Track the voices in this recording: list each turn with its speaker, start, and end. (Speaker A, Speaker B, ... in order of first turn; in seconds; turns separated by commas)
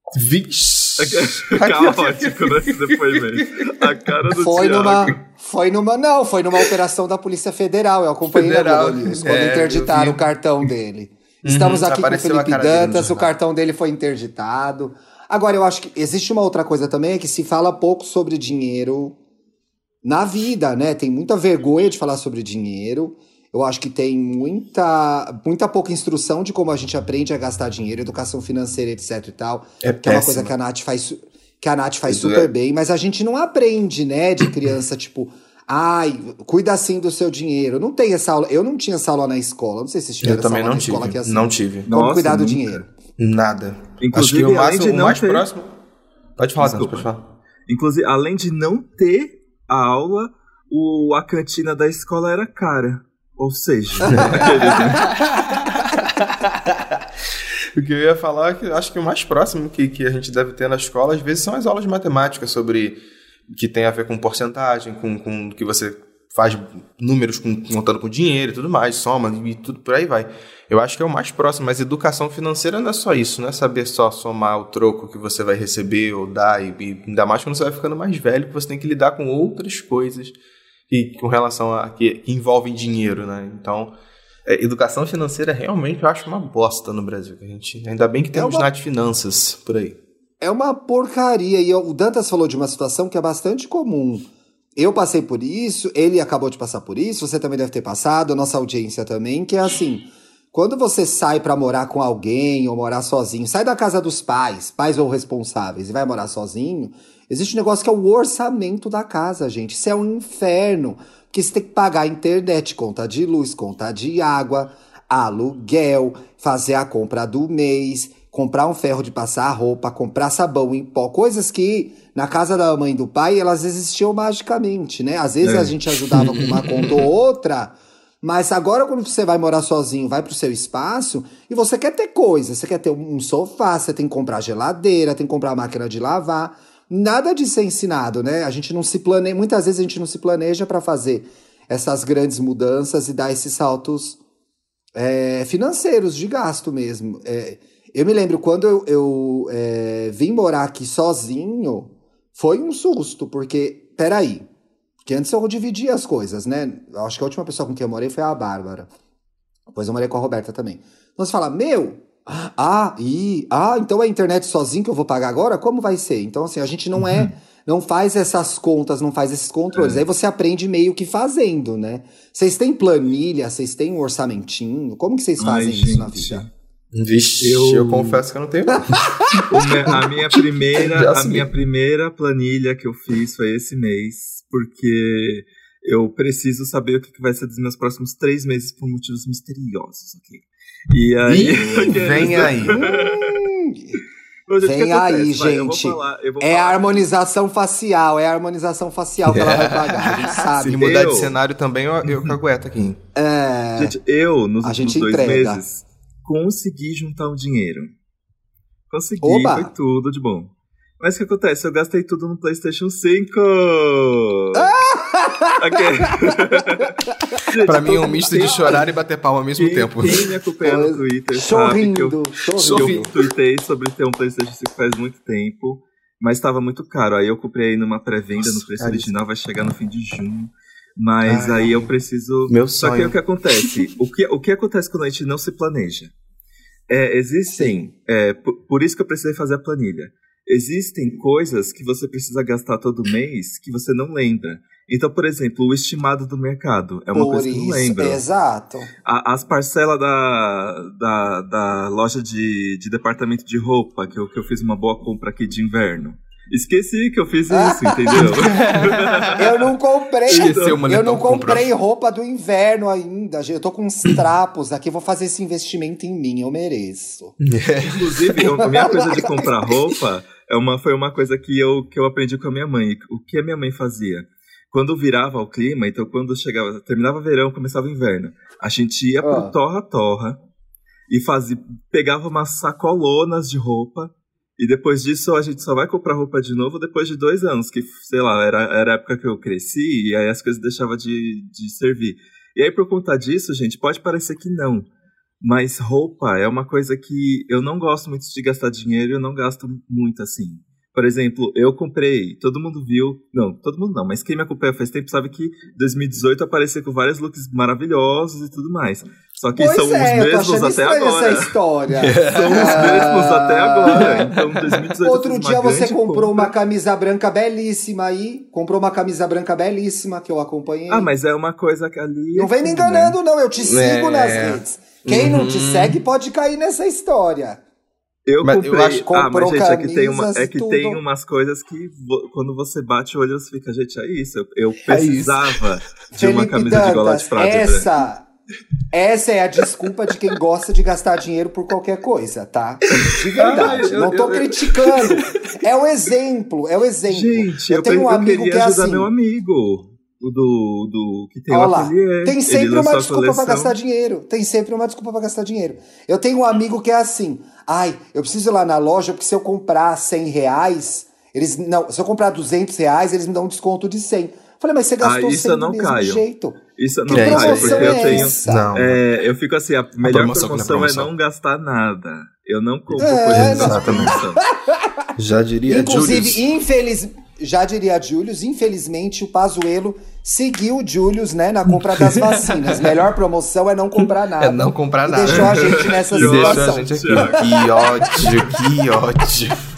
Speaker A: 0.1-4.0, Speaker B: 1.0-5.2, Speaker C: 4.4-19.2, Speaker A: 8.2-10.3, Speaker A: 11.4-13.3, Speaker C: 20.0-42.9, Speaker A: 29.8-30.5, Speaker A: 32.1-32.5, Speaker A: 40.2-41.9, Speaker B: 41.9-42.8, Speaker A: 43.2-45.7, Speaker B: 44.0-45.5, Speaker A: 46.4-47.2, Speaker B: 46.6-47.1, Speaker B: 47.7-55.1, Speaker A: 54.0-56.0, Speaker C: 54.1-55.4, Speaker A: 57.7-63.0, Speaker A: 63.5-80.3, Speaker A: 80.9-83.9, Speaker A: 84.5-90.0, Speaker C: 88.3-88.7, Speaker C: 90.4-144.2, Speaker B: 125.4-126.9, Speaker C: 144.9-154.5, Speaker C: 155.1-158.9, Speaker C: 159.7-176.5, Speaker B: 167.0-167.3, Speaker B: 169.7-170.0, Speaker B: 175.4-176.5, Speaker A: 176.9-180.1, Speaker B: 177.4-178.2, Speaker C: 178.8-179.6, Speaker B: 179.5-193.5, Speaker A: 180.8-181.5, Speaker A: 191.2-192.8, Speaker C: 192.7-194.0, Speaker B: 194.5-197.1, Speaker C: 194.6-201.0, Speaker A: 199.3-203.0, Speaker B: 200.8-201.3, Speaker C: 203.1-203.9, Speaker B: 203.8-207.9, Speaker C: 204.6-205.6, Speaker B: 208.9-214.7, Speaker C: 209.2-209.7, Speaker C: 214.5-218.8, Speaker B: 215.6-218.8, Speaker A: 217.6-220.2, Speaker B: 219.6-236.1, Speaker C: 220.6-223.1, Speaker A: 222.5-223.2, Speaker A: 228.4-229.1, Speaker A: 231.2-231.8, Speaker A: 232.5-233.2, Speaker B: 236.9-248.2, Speaker C: 237.5-237.9, Speaker C: 247.1-248.9, Speaker B: 249.0-259.7, Speaker C: 257.5-258.4, Speaker A: 258.1-259.3, Speaker C: 259.4-267.4, Speaker B: 260.3-260.8, Speaker A: 260.3-261.7, Speaker A: 267.4-268.5, Speaker B: 267.8-280.4, Speaker C: 268.6-269.8, Speaker C: 279.2-279.5, Speaker B: 281.1-294.9, Speaker B: 295.4-311.5, Speaker C: 309.6-314.3, Speaker A: 312.0-313.1, Speaker B: 312.2-316.5, Speaker A: 314.0-314.4, Speaker C: 315.0-321.1, Speaker B: 320.9-323.2, Speaker C: 322.3-327.6, Speaker A: 323.6-326.0, Speaker B: 328.3-337.9, Speaker A: 328.4-329.1, Speaker C: 328.8-331.0, Speaker A: 334.9-335.6, Speaker C: 336.1-338.3, Speaker C: 338.9-349.1, Speaker B: 343.0-344.5, Speaker A: 343.4-345.3, Speaker B: 347.1-353.8, Speaker C: 351.5-368.8, Speaker B: 365.0-366.2, Speaker B: 366.8-374.4, Speaker A: 367.1-369.0, Speaker A: 370.0-371.1, Speaker A: 372.9-374.2, Speaker C: 373.0-375.1, Speaker A: 375.2-376.4, Speaker C: 375.7-387.6, Speaker A: 382.0-382.8, Speaker A: 384.4-389.5, Speaker B: 385.2-388.3